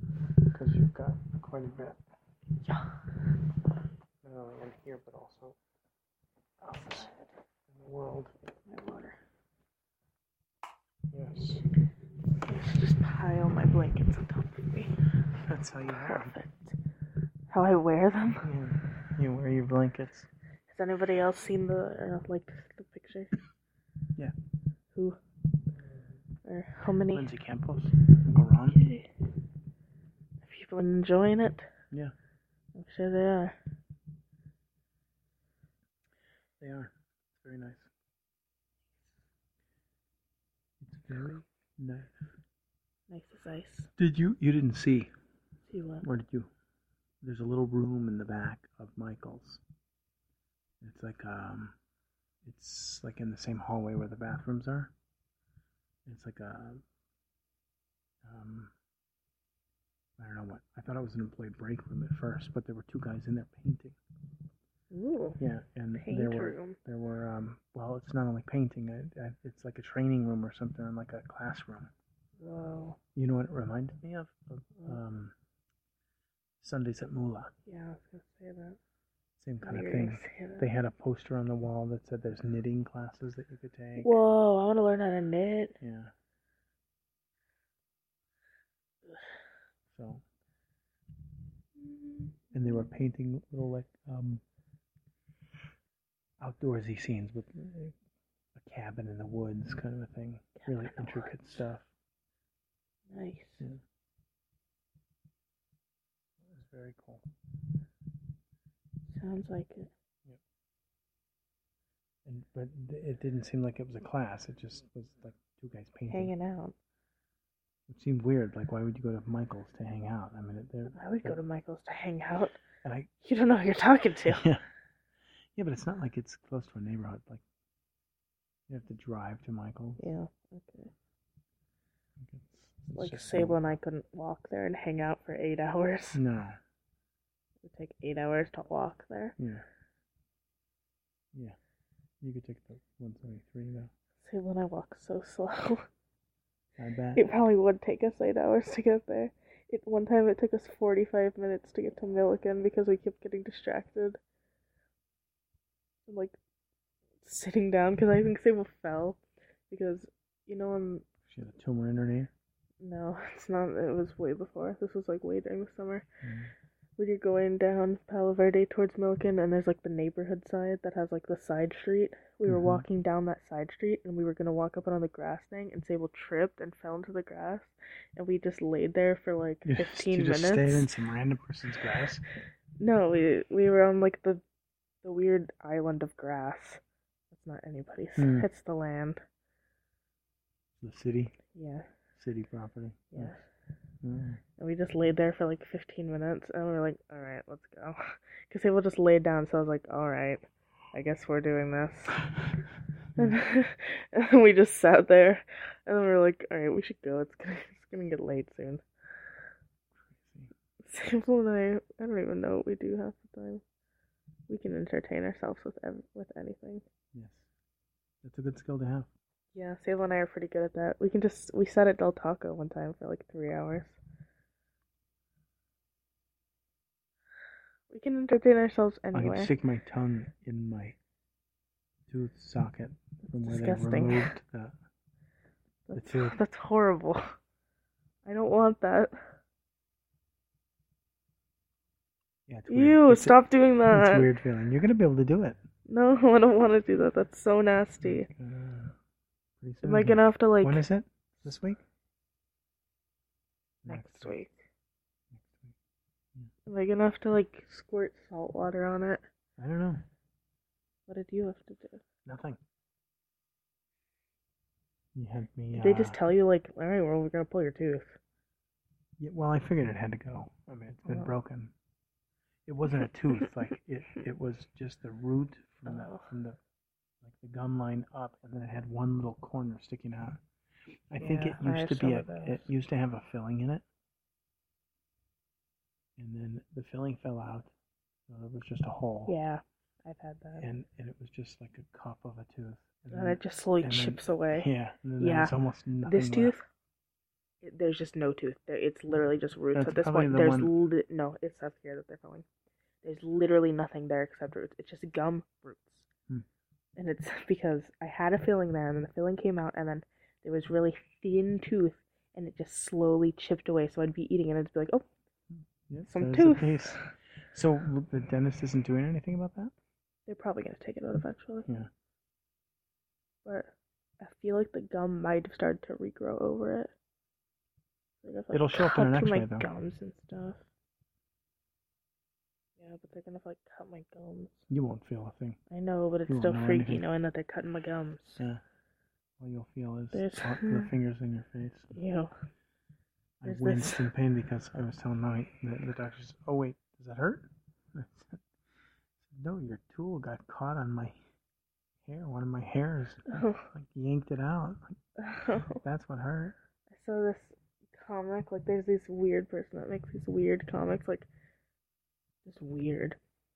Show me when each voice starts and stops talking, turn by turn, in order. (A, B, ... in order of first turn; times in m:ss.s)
0:00.5-0:02.0 A
0:02.6-0:03.0 B
0:04.2-0:05.6 A
0:06.6-0:07.3 B
0:06.6-0:07.1 A
0:07.7-0:08.3 A
0:08.7-0:09.2 B
0:11.1-0:11.6 A
0:12.4-0:14.9 B
0:15.4-0:16.3 A
0:16.0-0:16.8 B
0:17.5-0:18.5 B
0:18.4-0:20.3 A
0:20.7-0:23.3 B
0:26.4-0:27.3 B
0:27.1-0:29.0 A
0:28.7-0:29.1 B
0:30.4-0:31.7 B
0:32.8-0:33.6 B
0:36.6-0:37.9 A
0:40.8-0:42.2 A
0:43.1-0:43.9 B
0:44.0-0:45.1 A
0:45.7-0:46.0 B
0:46.0-0:46.5 A
0:47.2-0:49.6 A
0:50.8-0:51.8 A
0:52.4-0:54.9 A
0:56.1-0:56.8 A
0:58.2-0:58.7 A
1:00.2-1:04.0 A
1:04.9-1:05.4 B
1:05.4-1:11.9 A
1:06.0-1:06.8 B
1:12.4-1:13.0 B
1:13.2-1:15.4 A
1:16.6-1:17.5 A
1:17.7-1:18.8 B
1:19.4-1:24.2 A
1:19.6-1:20.6 B
1:24.0-1:25.8 B
1:25.8-1:26.1 A
1:29.9-1:30.2 A
1:31.8-1:32.4 B
1:32.5-1:34.4 A
1:36.4-1:38.0 A
1:38.6-1:41.9 A
1:40.6-1:41.3 B
1:43.1-1:43.6 B
1:46.4-1:47.2 A
1:49.1-1:49.9 B
1:52.2-1:56.3 A
1:56.1-1:56.8 B
1:57.9-2:01.4 A
2:00.9-2:02.6 B
2:02.8-2:03.1 A
2:03.2-2:04.5 B
2:04.3-2:04.6 A
2:05.6-2:07.4 A
2:08.7-2:10.1 A
2:10.0-2:10.9 B
2:12.2-2:13.6 A
2:12.9-2:16.2 B
2:16.1-2:16.6 A
2:17.6-2:19.4 B
2:19.4-2:19.6 A
2:22.2-2:23.9 A
2:24.2-2:25.8 B
2:26.8-2:27.2 A
2:27.2-2:34.2 B
2:36.1-2:36.4 B
2:37.2-2:41.1 B
2:41.2-2:42.3 A
2:42.8-2:46.0 B
2:46.2-2:46.5 A
2:47.0-3:00.9 B
2:52.5-2:52.8 A
2:59.7-3:02.2 A
3:02.8-3:04.4 B
3:05.0-3:09.2 B
3:08.2-3:08.5 A
3:10.8-3:11.3 A
3:11.5-3:11.9 B
3:12.2-3:13.4 A
3:13.1-3:13.4 B
3:14.0-3:14.4 A
3:14.6-3:20.4 B
3:20.9-3:22.2 B
3:23.2-3:28.8 B
3:30.1-3:30.5 A
3:30.8-3:33.6 B
3:34.5-3:36.8 B
3:37.1-3:37.5 A
3:38.2-3:39.1 A
3:39.5-3:44.0 B
3:47.9-3:49.5 B
3:49.1-3:51.0 A
3:52.1-3:54.8 A
3:53.3-3:54.3 B
3:55.9-3:57.2 B
3:56.0-3:56.4 A
3:58.2-3:59.2 B
4:02.5-4:05.6 A
4:02.7-4:04.3 B
4:05.9-4:08.3 B
4:08.0-4:09.0 A
4:09.6-4:11.8 A
4:09.8-4:10.8 B
4:13.8-4:14.4 A
4:13.9-4:14.6 B
4:15.3-4:15.8 A
4:16.7-4:19.2 B
4:19.6-4:20.0 A
4:21.1-4:22.0 B
4:22.3-4:22.6 A
4:25.2-4:26.2 A
4:25.7-4:28.2 B
4:29.2-4:31.7 A
4:32.7-4:36.6 A
4:35.9-4:36.3 B
4:37.2-4:40.4 A
4:41.1-4:43.8 A
4:41.2-4:42.7 B
4:46.2-4:47.7 A
4:48.3-4:49.4 A
4:49.3-4:50.7 B
4:50.6-4:56.6 A
4:53.1-4:54.7 B
4:55.2-4:56.6 B
4:57.6-5:02.4 B
4:59.7-5:00.7 A
5:03.0-5:06.1 B
5:07.0-5:15.1 B
5:15.9-5:19.7 A
5:16.1-5:17.0 B
5:20.3-5:21.7 B
5:23.4-5:26.9 B
5:28.2-5:30.6 B
5:28.5-5:29.7 A
5:32.8-5:34.6 B
5:34.7-5:35.6 A
5:35.7-5:38.4 B
5:36.3-5:37.1 A
5:39.4-5:41.9 A
5:40.1-5:40.9 B
5:41.9-5:42.3 B
5:43.4-5:48.4 A
5:43.4-5:44.1 B
5:49.2-5:51.2 A
5:52.0-5:55.0 A
5:53.3-5:53.7 B
5:55.2-5:55.8 B
5:55.8-5:56.6 A
5:56.9-6:01.3 B
6:02.4-6:03.2 B